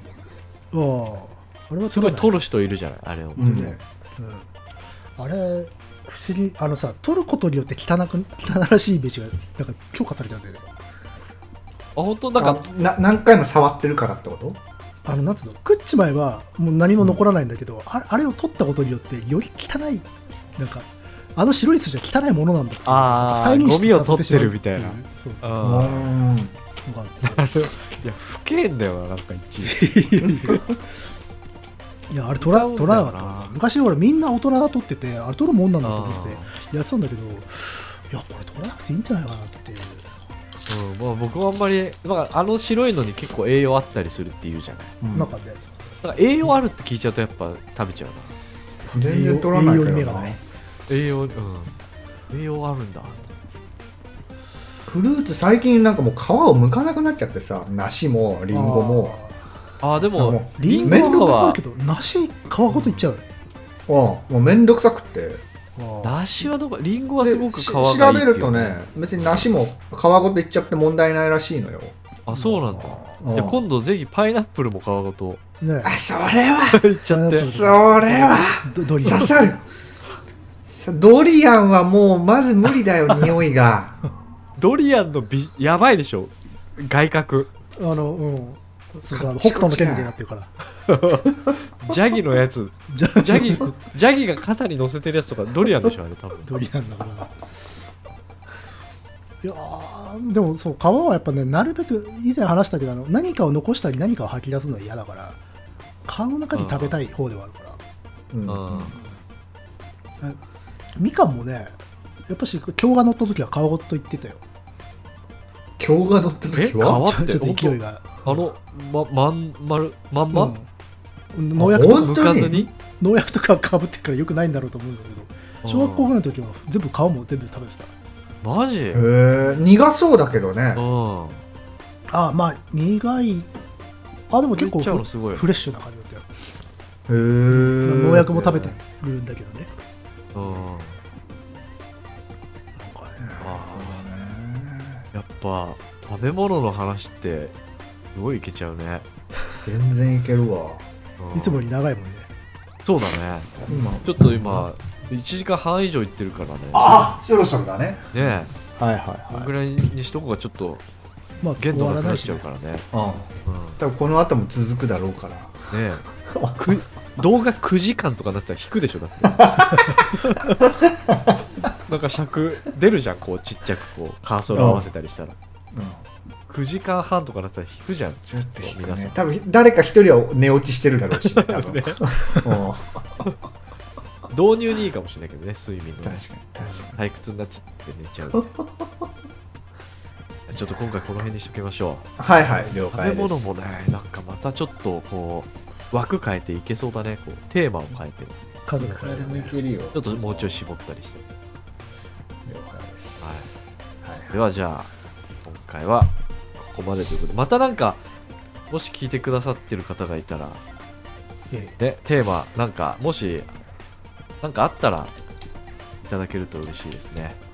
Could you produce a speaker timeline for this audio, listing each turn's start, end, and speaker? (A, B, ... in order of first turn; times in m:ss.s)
0:00.7-0:02.4 A
0:01.9-0:03.7 B
0:03.4-0:03.8 C
0:03.4-0:04.5 A
0:05.2-0:10.7 A
0:12.0-0:12.7 B
0:12.4-0:14.6 C
0:15.0-0:25.9 A
0:22.9-0:26.1 B
0:25.6-0:26.6 C
0:26.8-0:27.5 A
0:27.2-0:30.6 B
0:29.6-0:30.7 A
0:32.1-0:40.1 A
0:32.4-0:33.5 B
0:35.8-0:36.5 B
0:40.7-0:44.9 B
0:45.0-0:45.3 C
0:45.1-0:45.6 A
0:46.0-0:48.4 B
0:48.9-0:50.4 A
0:48.9-0:50.4 C
0:50.9-0:51.7 B
0:52.3-0:53.2 B
0:54.8-0:59.2 C
0:58.5-0:59.4 A
0:59.8-1:01.6 B
1:00.2-1:01.4 C
1:00.6-1:03.2 A
1:02.7-1:03.0 B
1:03.9-1:05.4 C
1:05.8-1:06.2 A
1:06.0-1:08.8 B
1:07.2-1:11.9 C
1:12.3-1:15.4 B
1:12.3-1:13.2 A
1:13.2-1:13.6 C
1:15.6-1:16.0 A
1:15.8-1:16.8 C
1:16.7-1:17.5 B
1:17.1-1:19.5 A
1:17.4-1:19.6 C
1:20.7-1:24.0 C
1:24.6-1:27.5 B
1:27.8-1:30.5 A
1:29.1-1:30.1 C
1:30.8-1:36.4 B
1:32.9-1:33.8 A
1:36.4-1:37.3 A
1:39.4-1:45.4 A
1:46.1-1:47.8 A
1:46.5-1:47.0 B
1:48.3-1:49.0 C
1:48.5-1:49.0 B
1:51.0-1:51.8 A
1:52.3-1:54.4 A
1:55.8-1:57.0 C
1:56.5-2:00.6 B
1:57.0-1:58.4 A
2:00.3-2:00.7 A
2:01.3-2:07.9 A
2:01.6-2:02.7 C
2:01.8-2:02.7 B
2:05.6-2:06.1 B
2:08.4-2:09.1 B
2:08.9-2:10.8 C
2:10.8-2:11.4 B
2:12.1-2:13.5 A
2:14.3-2:16.3 A
2:14.6-2:15.5 B
2:17.1-2:18.8 C
2:17.5-2:19.7 A
2:20.3-2:21.0 B
2:22.8-2:23.5 A
2:23.2-2:25.0 C
2:23.4-2:24.0 B
2:25.1-2:27.6 B
2:28.1-2:29.1 B
2:29.6-2:30.9 C
2:31.2-2:31.6 B
2:31.3-2:32.3 A
2:32.8-2:33.5 B
2:33.6-2:34.7 C
2:34.0-2:37.1 B
2:36.7-2:39.5 C
2:38.1-2:38.5 B
2:39.3-2:40.8 B
2:41.4-2:42.4 A
2:41.6-2:42.8 B
2:42.9-2:43.3 C
2:43.4-2:43.8 B
2:43.8-2:45.6 C
2:45.7-2:50.6 B
2:46.2-2:46.8 C
2:49.3-2:49.9 C
2:50.6-2:51.4 C
2:51.8-2:55.4 B
2:54.5-2:54.9 C
2:55.7-2:56.1 C
2:56.5-2:59.2 B
2:58.2-3:03.2 C
3:01.2-3:02.5 B
3:04.3-3:08.5 B
3:06.0-3:07.0 C
3:08.3-3:08.9 C
3:10.5-3:12.1 B
3:12.2-3:13.5 C
3:12.9-3:18.4 B
3:18.7-3:19.6 A
3:18.8-3:20.6 C
3:19.9-3:21.2 B
3:22.4-3:23.4 C
3:23.2-3:23.5 B
3:24.0-3:24.3 C
3:24.3-3:24.9 B
3:25.4-3:28.0 B
3:28.7-3:30.6 B
3:31.8-3:33.5 B
3:34.4-3:35.1 B
3:36.0-3:37.4 B